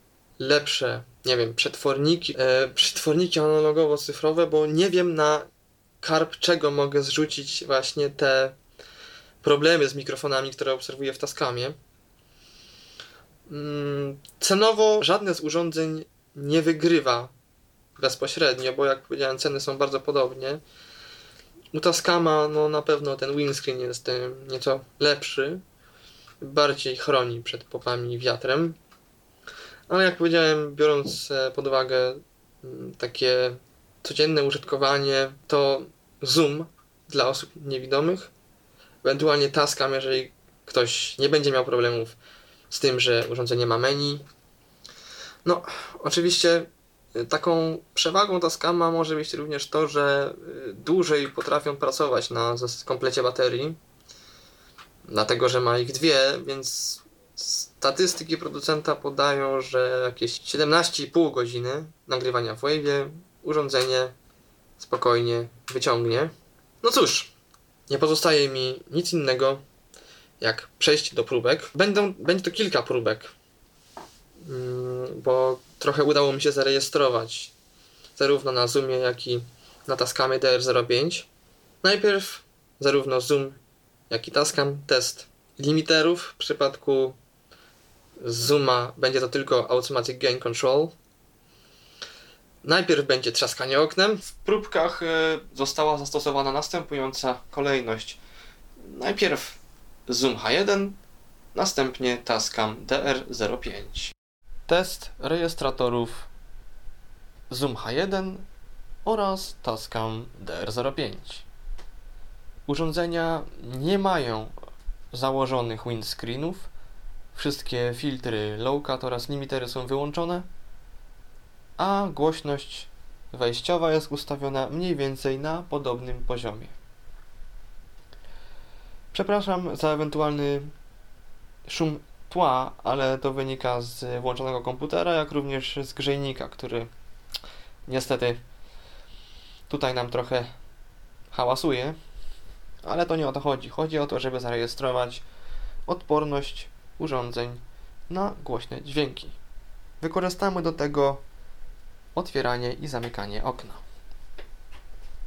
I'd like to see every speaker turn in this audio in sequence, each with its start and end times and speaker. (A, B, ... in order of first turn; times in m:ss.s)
0:00.4-0:05.5 A
0:06.0-0:08.6 A
0:09.4-0:11.8 A
0:13.5-0:17.3 A
0:18.0-0:20.6 A
0:21.7-0:25.6 A
0:26.4-0:28.8 A
0:29.9-0:38.3 A
0:39.0-0:42.2 A
0:42.7-0:44.2 A
0:45.4-0:53.8 A
0:55.1-1:04.2 A
1:04.8-1:07.3 A
1:07.9-1:09.6 A
1:10.4-1:13.3 A
1:14.4-1:17.5 A
1:18.2-1:21.3 A
1:21.8-1:23.6 A
1:24.1-1:27.2 A
1:28.2-1:30.9 A
1:32.6-1:38.2 A
1:38.8-1:41.0 A
1:41.5-1:44.1 A
1:44.7-1:46.3 A
1:47.5-1:48.5 A
1:49.0-1:51.5 A
1:52.7-1:54.5 A
1:55.1-1:56.7 A
1:57.3-2:00.5 A
2:01.8-2:06.7 A
2:09.1-2:10.7 A
2:11.7-2:16.9 A
2:17.9-2:18.4 A
2:19.7-2:20.5 A
2:21.3-2:22.0 A
2:22.8-2:25.2 A
2:25.9-2:29.4 A
2:30.0-2:31.2 A
2:32.2-2:33.8 A